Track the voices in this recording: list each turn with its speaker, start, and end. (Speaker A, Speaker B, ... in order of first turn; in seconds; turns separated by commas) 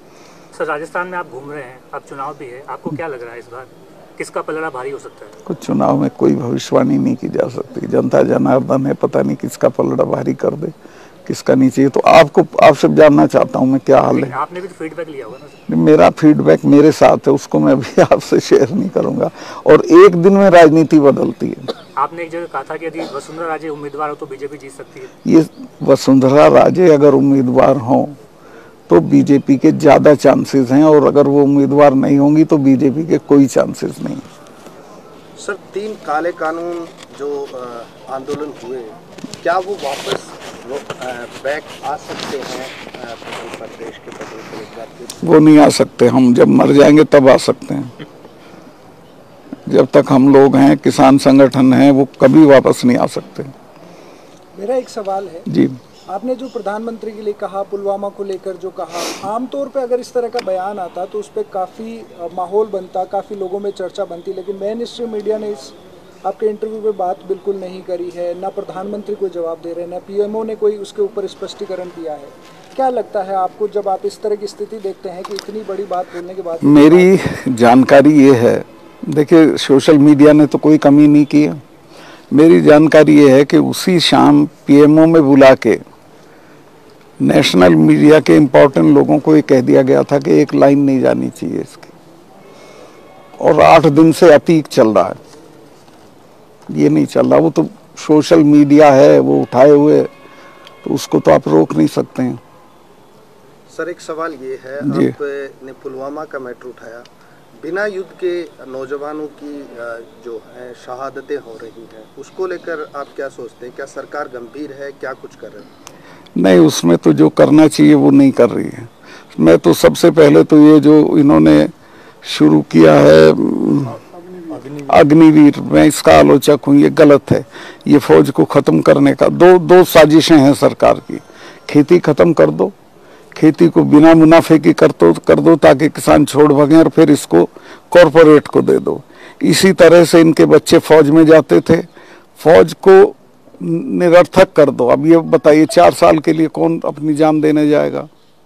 Speaker A: 0.5-5.3, Speaker B: 5.5-10.7, Speaker B: 11.2-14.3, Speaker A: 14.1-15.6, Speaker B: 15.7-21.7, Speaker A: 21.9-25.1, Speaker B: 25.2-28.1, Speaker B: 28.9-34.2, Speaker C: 35.4-45.2, Speaker B: 45.2-47.9, Speaker B: 49.7-53.5, Speaker D: 54.5-55.5, Speaker B: 55.5-55.8, Speaker D: 56.1-65.7, Speaker D: 66.3-77.1, Speaker B: 76.6-81.6, Speaker B: 82.3-85.8, Speaker B: 87.2-91.9, Speaker B: 93.4-95.2, Speaker B: 96.7-100.1, Speaker B: 100.8-102.4, Speaker C: 103.7-107.0, Speaker B: 104.8-105.1, Speaker C: 107.6-115.7, Speaker B: 116.3-121.7, Speaker B: 122.2-124.0, Speaker B: 124.5-132.7, Speaker B: 133.3-148.1